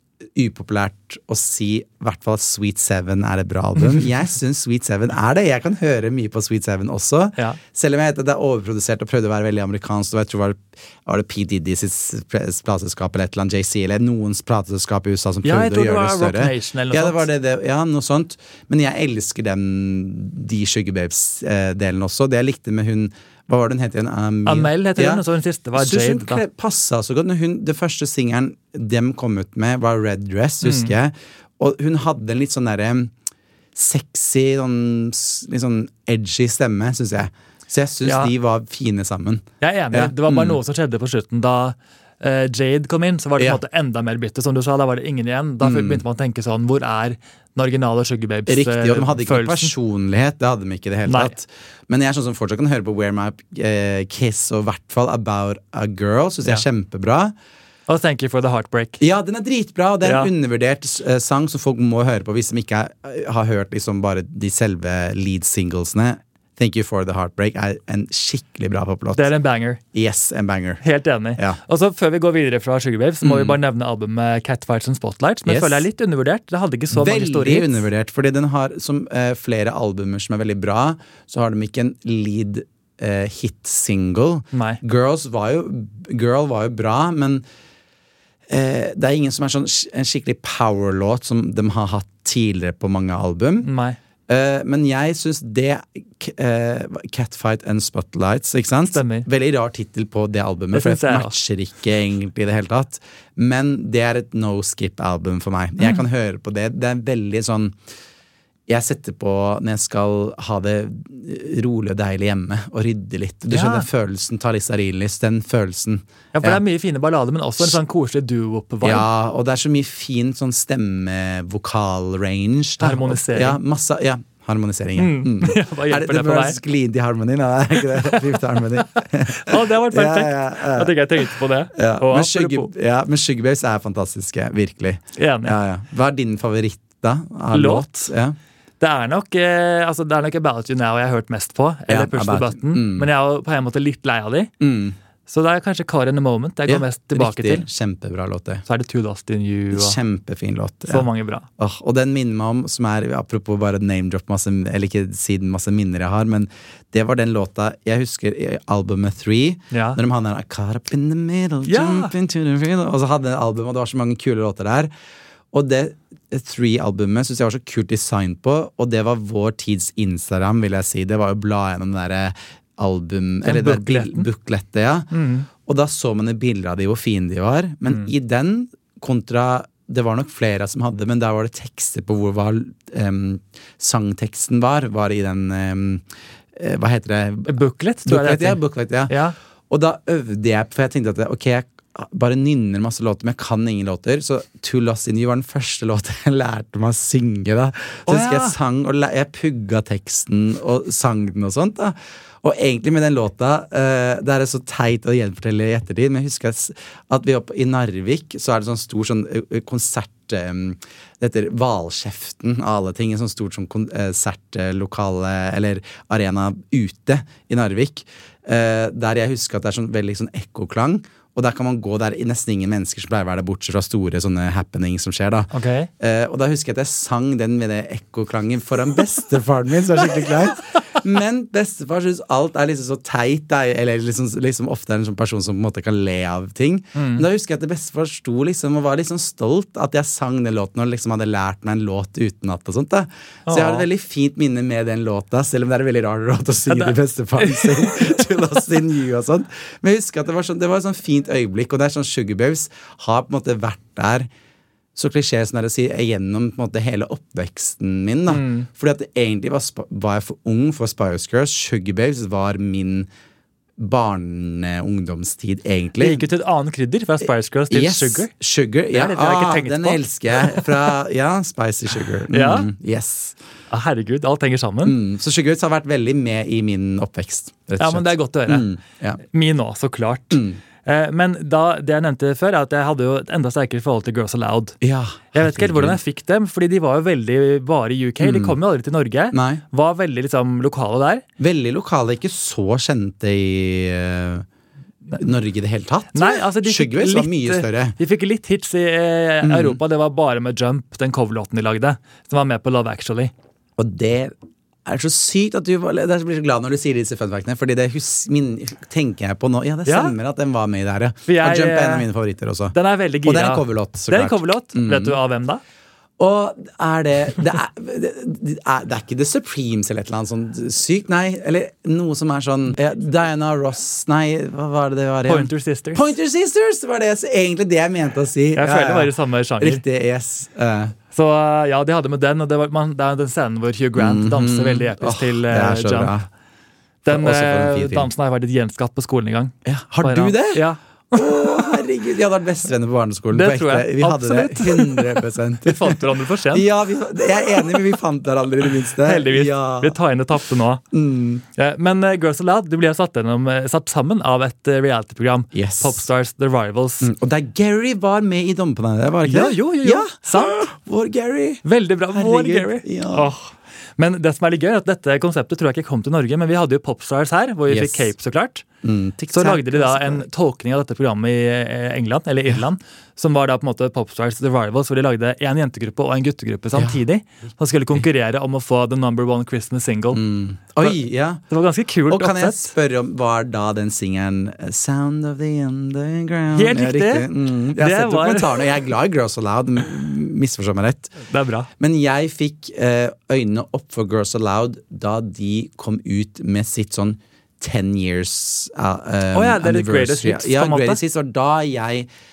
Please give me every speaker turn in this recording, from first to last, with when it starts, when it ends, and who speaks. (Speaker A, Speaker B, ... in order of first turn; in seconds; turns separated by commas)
Speaker A: 0.3-25.2, Speaker B: 15.4-17.3, Speaker B: 24.4-26.4, Speaker A: 25.8-33.1, Speaker B: 30.6-30.9, Speaker A: 33.7-40.6, Speaker B: 38.0-38.3, Speaker B: 39.6-49.7, Speaker A: 45.6-46.0, Speaker A: 48.5-57.3, Speaker B: 51.0-51.3, Speaker B: 57.9-59.0, Speaker A: 59.0-69.3, Speaker B: 60.0-60.3, Speaker B: 69.1-69.8, Speaker A: 69.9-70.8, Speaker B: 70.8-77.8, Speaker A: 73.2-73.6, Speaker A: 75.5-75.8, Speaker A: 76.9-87.4, Speaker B: 84.5-84.8, Speaker A: 88.5-93.7, Speaker B: 93.6-94.0, Speaker A: 94.3-107.8, Speaker B: 98.9-99.3, Speaker B: 100.7-101.3, Speaker A: 108.7-116.6, Speaker B: 113.5-113.9, Speaker B: 116.3-119.1, Speaker A: 118.8-138.3, Speaker B: 122.8-123.6, Speaker B: 125.0-126.6, Speaker B: 129.3-132.7, Speaker B: 135.2-135.6, Speaker B: 137.5-138.1, Speaker B: 138.8-144.5, Speaker A: 141.9-143.1, Speaker A: 144.6-144.9, Speaker B: 145.3-147.7, Speaker A: 146.7-148.6, Speaker B: 148.7-150.0, Speaker A: 149.7-151.1, Speaker B: 150.9-151.5, Speaker A: 151.6-164.9, Speaker B: 159.7-160.0, Speaker B: 161.7-162.1, Speaker A: 165.5-187.5, Speaker B: 173.4-174.3, Speaker B: 175.1-175.4, Speaker B: 187.5-189.3, Speaker A: 188.1-189.1, Speaker A: 189.7-254.3, Speaker B: 198.1-198.6, Speaker B: 225.5-225.9, Speaker B: 236.9-237.2, Speaker B: 243.4-243.8, Speaker B: 246.7-248.3, Speaker A: 254.9-263.1, Speaker B: 258.3-258.7, Speaker A: 263.8-266.2, Speaker B: 266.0-268.3, Speaker A: 267.7-273.4, Speaker B: 268.9-270.7, Speaker B: 272.3-272.7, Speaker B: 273.7-275.0, Speaker A: 274.8-279.2, Speaker B: 277.8-278.7, Speaker B: 279.3-284.8, Speaker A: 280.3-280.6, Speaker A: 284.8-286.0, Speaker B: 285.3-291.2, Speaker A: 288.2-288.6, Speaker A: 289.3-289.6, Speaker A: 291.4-294.4, Speaker A: 295.2-297.9, Speaker B: 296.1-303.3, Speaker A: 299.4-299.8, Speaker A: 303.8-304.3, Speaker A: 304.9-315.2, Speaker B: 309.9-310.1, Speaker B: 311.3-312.1, Speaker B: 312.7-315.6, Speaker A: 316.2-330.9, Speaker B: 325.3-326.1, Speaker B: 328.5-329.8, Speaker B: 331.1-336.1, Speaker A: 334.0-336.3, Speaker B: 337.0-341.8, Speaker A: 337.1-338.1, Speaker A: 339.6-349.9, Speaker B: 343.3-346.7, Speaker B: 348.9-350.8, Speaker A: 350.9-351.4, Speaker B: 351.6-357.1, Speaker A: 355.5-356.0, Speaker A: 357.0-361.6, Speaker B: 359.2-360.6, Speaker B: 361.6-368.6, Speaker A: 362.1-363.3, Speaker A: 367.7-368.1, Speaker A: 368.8-370.3, Speaker B: 369.3-380.2, Speaker A: 380.1-381.4, Speaker B: 380.8-382.7, Speaker A: 382.1-391.1, Speaker B: 386.5-388.6, Speaker B: 391.3-391.7, Speaker A: 391.8-402.1, Speaker B: 399.3-401.0